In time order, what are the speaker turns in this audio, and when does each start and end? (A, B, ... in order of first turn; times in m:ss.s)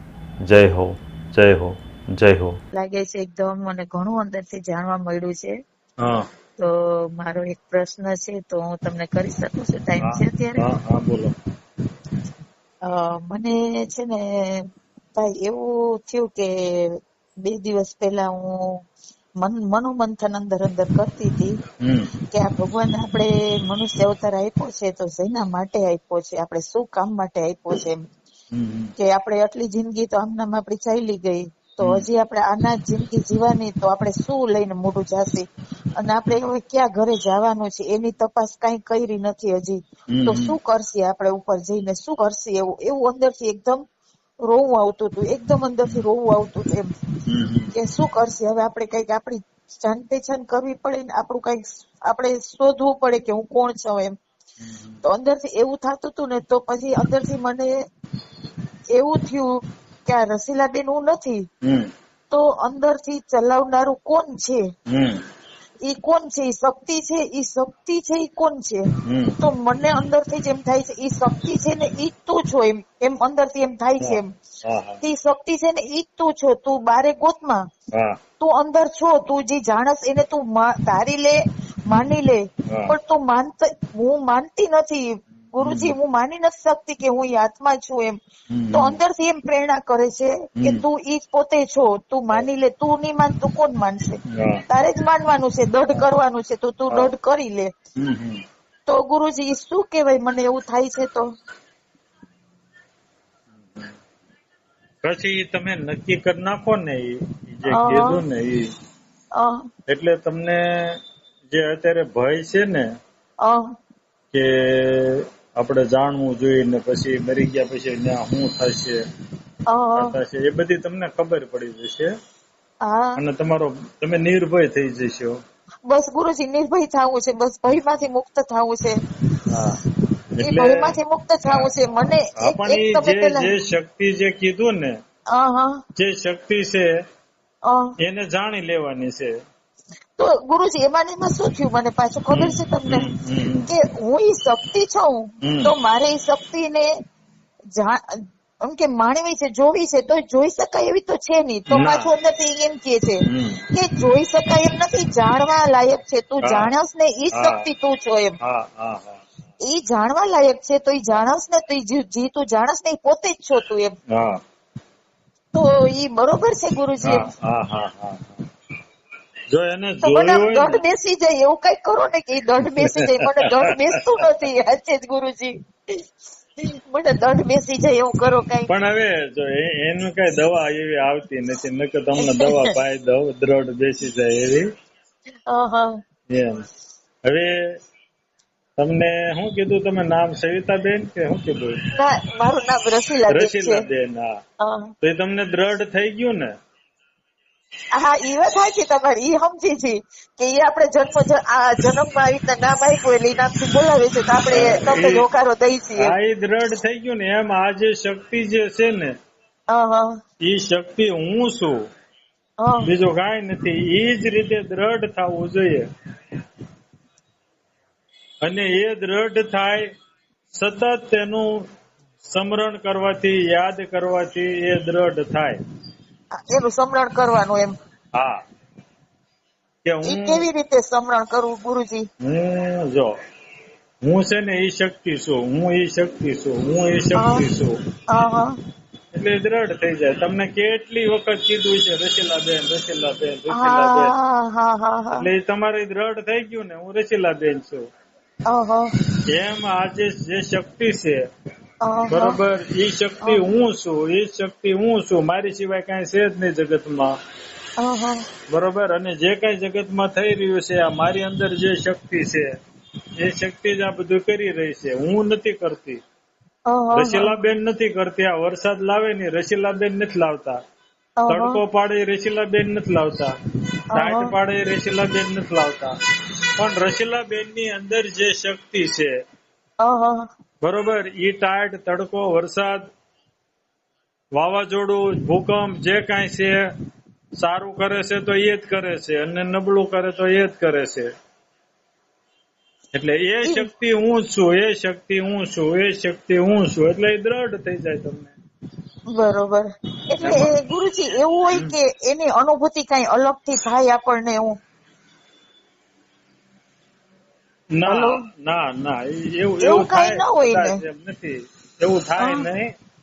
0:00.5-0:02.6 A
0:02.7-0:05.5 B
0:06.0-0:06.3 A
0:06.6-0:10.6 B
0:10.0-0:11.4 A
0:12.9-0:14.6 B
0:15.2-0:18.7 B
0:19.4-0:21.5 B
0:21.8-0:22.1 A
0:22.3-0:28.0 B
0:28.5-0:28.9 A
0:29.0-0:35.4 B
0:36.0-0:43.8 B
0:40.1-0:40.6 A
0:44.4-0:46.9 B
0:47.3-0:47.7 A
0:47.8-0:54.2 B
0:54.6-0:55.0 A
0:55.0-0:57.7 B
0:58.9-1:01.5 B
1:01.6-1:01.9 A
1:02.3-1:04.7 B
1:04.9-1:05.2 A
1:05.8-1:08.9 B
1:09.0-1:09.4 A
1:09.4-1:14.3 B
1:14.0-1:15.0 A
1:15.0-1:17.6 B
1:17.9-1:18.2 A
1:18.4-1:28.2 B
1:22.7-1:23.0 A
1:25.6-1:26.0 A
1:28.5-1:29.0 A
1:28.7-1:37.7 B
1:34.3-1:34.6 A
1:38.0-1:38.4 A
1:38.9-1:41.3 B
1:43.6-1:43.9 A
1:45.0-1:48.7 A
1:47.7-1:48.2 B
1:49.4-1:49.6 B
1:49.9-1:51.0 A
1:51.5-1:52.9 A
1:54.3-1:59.0 A
1:59.7-2:00.1 B
2:00.0-2:02.1 A
2:02.8-2:03.2 B
2:03.2-2:05.4 A
2:05.9-2:09.0 B
2:09.4-2:09.8 A
2:10.4-2:15.0 A
2:10.4-2:13.5 B
2:15.3-2:15.8 B
2:16.0-2:16.9 A
2:17.7-2:17.9 B
2:18.0-2:19.4 A
2:20.2-2:23.1 B
2:22.3-2:23.7 A
2:23.7-2:26.9 B
2:25.4-2:25.7 A
2:27.8-2:38.4 B
2:31.7-2:32.1 A
2:33.2-2:33.6 A
2:36.4-2:36.7 A
2:37.3-2:37.6 A
2:38.4-2:39.2 A
2:39.7-2:43.9 B
2:44.1-2:44.4 A
2:45.5-2:47.3 B
2:47.0-2:48.4 A
2:49.5-2:50.8 A
2:50.0-2:56.0 B
2:52.6-2:54.2 A
2:56.6-2:58.7 B
2:58.7-3:04.7 A
3:02.2-3:02.7 B
3:05.5-3:06.0 B
3:06.3-3:06.6 A
3:07.2-3:07.8 A
3:08.8-3:11.8 A
3:12.0-3:13.8 B
3:13.3-3:14.4 A
3:14.6-3:14.9 B
3:15.0-3:16.5 A
3:17.9-3:26.1 B
3:24.5-3:25.2 A
3:26.0-3:29.1 A
3:29.7-3:30.1 B
3:30.4-3:31.8 A
3:32.6-3:32.9 B
3:32.8-3:35.9 A
3:38.4-3:39.9 A
3:40.5-3:41.7 A
3:42.2-3:45.6 A
3:46.4-3:47.7 B
3:48.1-3:48.4 A
3:49.8-3:50.4 A
3:50.0-3:52.0 B
3:52.2-3:53.1 A
3:54.0-3:57.8 A
3:57.2-3:57.4 B
3:58.1-3:58.6 B
3:59.1-4:04.1 A
4:03.5-4:05.3 B
4:05.2-4:07.8 A
4:08.5-4:08.9 B
4:09.2-4:11.2 A
4:11.8-4:12.4 B
4:12.1-4:17.2 A
4:17.8-4:18.2 B
4:18.5-4:22.5 A
4:23.2-4:26.0 A
4:26.7-4:27.4 B
4:26.9-4:30.6 A
4:31.2-4:31.6 B
4:31.3-4:33.3 A
4:33.9-4:34.3 B
4:33.9-4:35.9 A
4:36.6-4:39.2 A
4:39.8-4:40.2 B
4:40.6-4:42.9 A
4:44.4-4:46.6 A
4:47.4-4:51.1 A
4:52.9-4:58.3 A
4:59.1-5:04.6 B
5:00.2-5:00.5 A
5:07.7-5:12.7 A
5:07.9-5:08.2 B
5:09.6-5:10.8 B
5:12.2-5:12.5 B